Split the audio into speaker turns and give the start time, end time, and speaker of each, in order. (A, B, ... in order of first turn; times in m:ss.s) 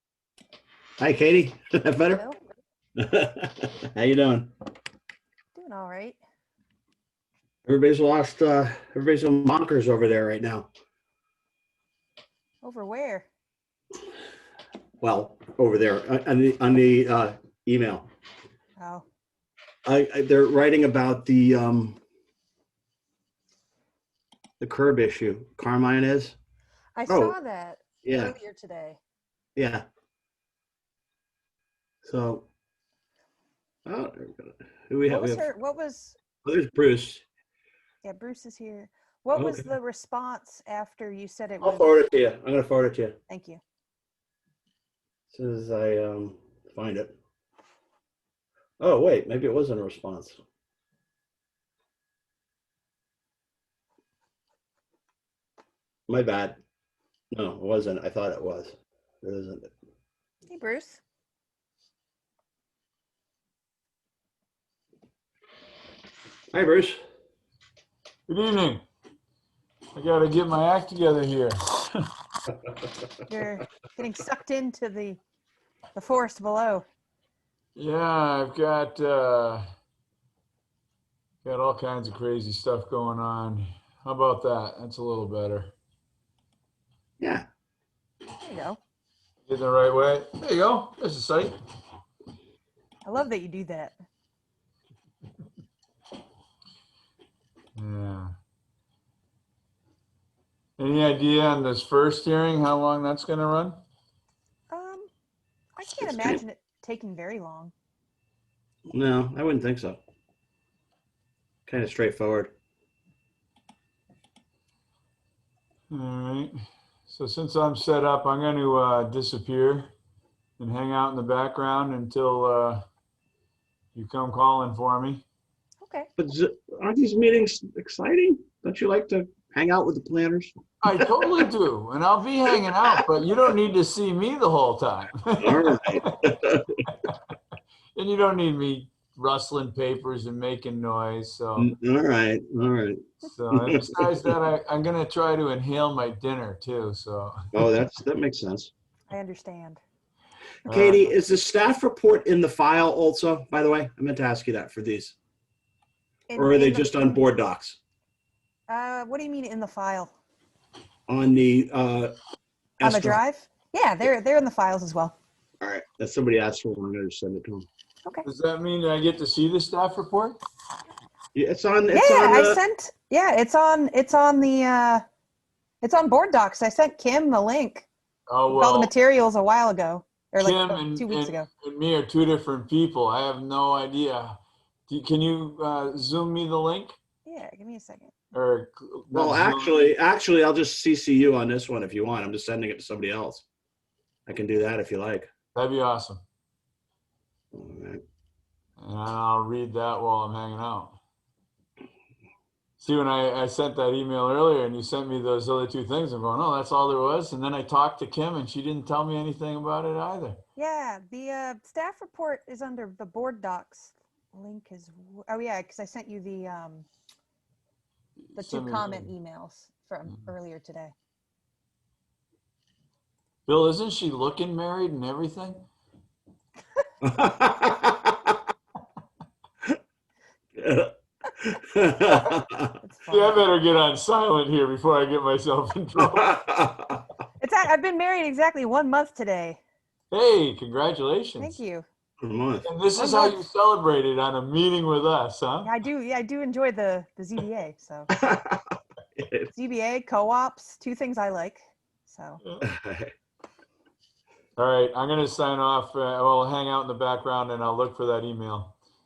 0:01.0-0:02.2 A
0:02.1-0:02.4 B
0:03.0-0:04.5 A
0:05.5-0:06.2 B
0:07.6-0:10.7 A
0:12.6-0:13.3 B
0:15.0-0:18.1 A
0:18.8-0:19.0 B
0:19.8-0:22.0 A
0:24.6-0:26.4 A
0:26.9-0:29.0 B
0:27.1-0:27.4 A
0:28.0-0:28.3 A
0:29.6-0:29.8 A
0:32.0-0:32.5 A
0:33.8-0:35.4 A
0:35.0-0:36.2 B
0:36.4-0:37.2 A
0:38.0-0:42.0 B
0:39.3-0:39.7 A
0:41.6-0:43.1 A
0:43.3-0:43.6 B
0:45.3-0:47.1 A
0:48.8-0:50.4 A
0:56.1-0:56.6 A
0:57.3-0:59.7 A
1:00.5-1:01.0 B
1:06.5-1:07.0 A
1:08.3-1:08.8 C
1:09.9-1:12.0 C
1:13.3-1:15.2 B
1:15.9-1:16.8 B
1:17.8-1:19.6 C
1:21.4-1:25.7 C
1:27.2-1:27.4 A
1:28.4-1:28.8 B
1:29.5-1:31.5 C
1:33.0-1:34.0 B
1:37.8-1:38.3 C
1:40.8-1:43.8 C
1:44.7-1:45.1 B
1:45.8-1:47.7 B
1:48.9-1:50.0 A
1:51.6-1:52.5 A
1:55.9-1:56.5 C
1:57.1-1:59.9 C
2:00.6-2:02.8 C
2:03.9-2:05.2 C
2:05.8-2:06.1 B
2:06.2-2:10.5 A
2:10.8-2:16.2 C
2:15.4-2:16.7 A
2:16.9-2:17.2 C
2:17.9-2:21.7 C
2:21.6-2:24.3 A
2:23.2-2:27.5 C
2:27.5-2:28.7 A
2:29.1-2:29.8 B
2:30.6-2:31.1 C
2:30.7-2:35.2 A
2:36.3-2:37.2 B
2:36.3-2:37.8 A
2:38.7-2:40.1 B
2:41.1-2:42.1 A
2:42.8-2:43.2 A
2:42.8-2:45.2 B
2:45.6-2:47.7 A
2:48.2-2:50.4 C
2:51.3-2:52.6 A
2:51.9-2:55.0 B
2:55.8-2:57.9 B
2:58.3-2:58.9 C
2:58.5-3:01.5 B
3:00.4-3:07.0 C
3:07.2-3:08.1 B
3:08.3-3:09.9 C
3:09.1-3:13.4 A
3:14.3-3:15.3 A
3:15.5-3:16.2 C
3:17.5-3:18.0 A
3:18.8-3:21.0 C
3:22.8-3:30.4 C
3:30.6-3:36.9 B
3:38.3-3:39.1 C
3:38.4-3:40.9 B
3:43.5-3:45.7 C
3:47.0-3:48.3 A
3:50.6-3:52.7 A
3:52.8-3:53.4 B
3:53.1-3:56.5 C
3:56.0-3:57.0 A
3:57.4-3:59.6 B
4:00.1-4:01.6 C
4:01.4-4:01.8 B
4:02.2-4:02.7 A
4:02.6-4:05.7 C
4:02.9-4:03.4 B
4:05.6-4:08.1 B
4:08.2-4:08.6 A
4:09.2-4:09.5 A
4:09.5-4:12.4 B
4:12.4-4:12.7 C
4:12.6-4:13.1 A
4:14.6-4:18.7 C